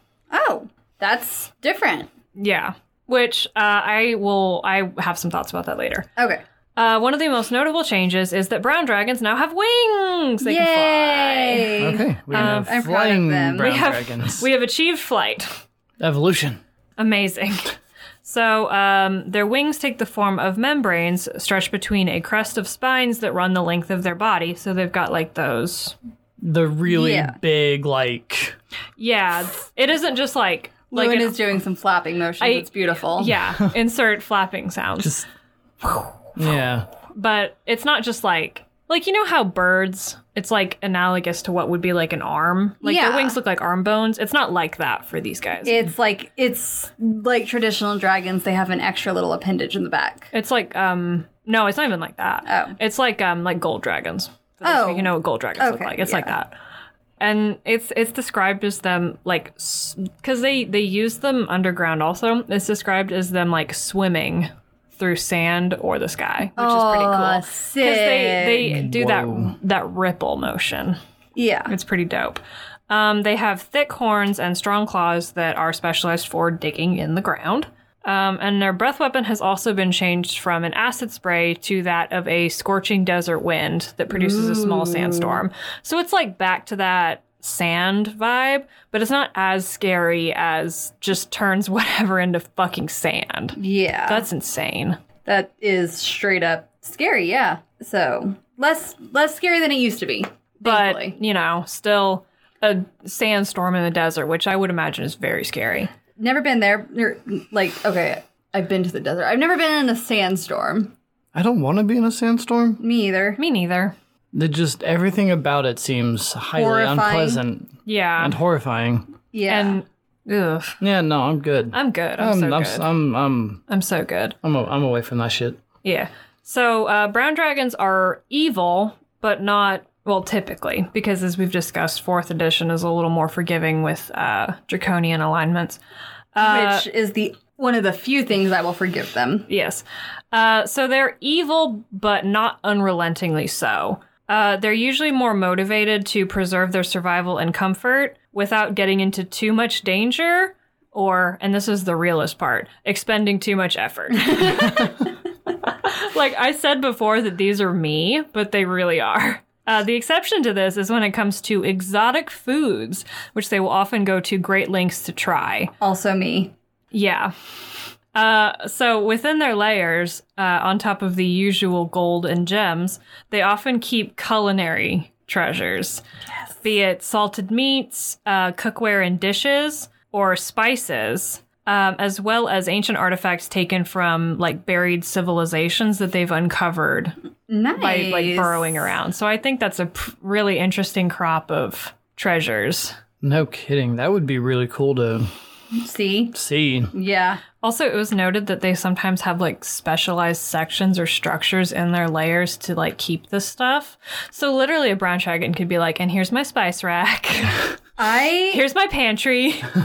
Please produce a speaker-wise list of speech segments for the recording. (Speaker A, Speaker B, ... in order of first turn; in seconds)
Speaker A: 0.3-2.1, 6.2-6.4, 10.4-13.8, 26.9-27.4, 30.9-33.3, 42.8-43.4, 45.6-50.3, 52.5-52.8, 54.6-56.3, 66.6-68.8, 71.4-71.7, 84.1-85.4, 93.6-94.3, 95.2-101.2, 106.2-110.9, 112.8-113.4, 116.5-117.4, 119.3-119.8, 136.4-139.5, 165.8-166.5, 187.5-188.9, 195.8-196.3, 196.9-197.4, 208.0-208.6
Speaker B: 2.4-6.1, 6.8-12.7, 13.6-15.6, 17.0-26.0, 29.0-31.4, 32.4-35.2, 35.8-36.1, 37.1-45.9, 50.3-56.5, 57.2-71.0, 71.7-95.0, 100.6-105.9, 113.4-114.0, 117.9-118.4, 119.5-120.8, 121.7-122.9, 123.7-124.4, 125.8-135.8, 136.3-136.9, 139.5-155.1, 155.6-165.7, 166.9-167.3, 168.1-176.0, 176.6-187.2, 187.8-193.0, 197.6-207.8, 208.5-209.8
Speaker C: 11.8-14.5, 16.0-16.6, 26.4-28.6, 35.0-35.3, 36.4-36.9, 68.7-69.5, 111.3-112.8, 114.3-119.1, 120.8-123.6, 124.4-125.6, 193.2-195.3, 196.3-196.9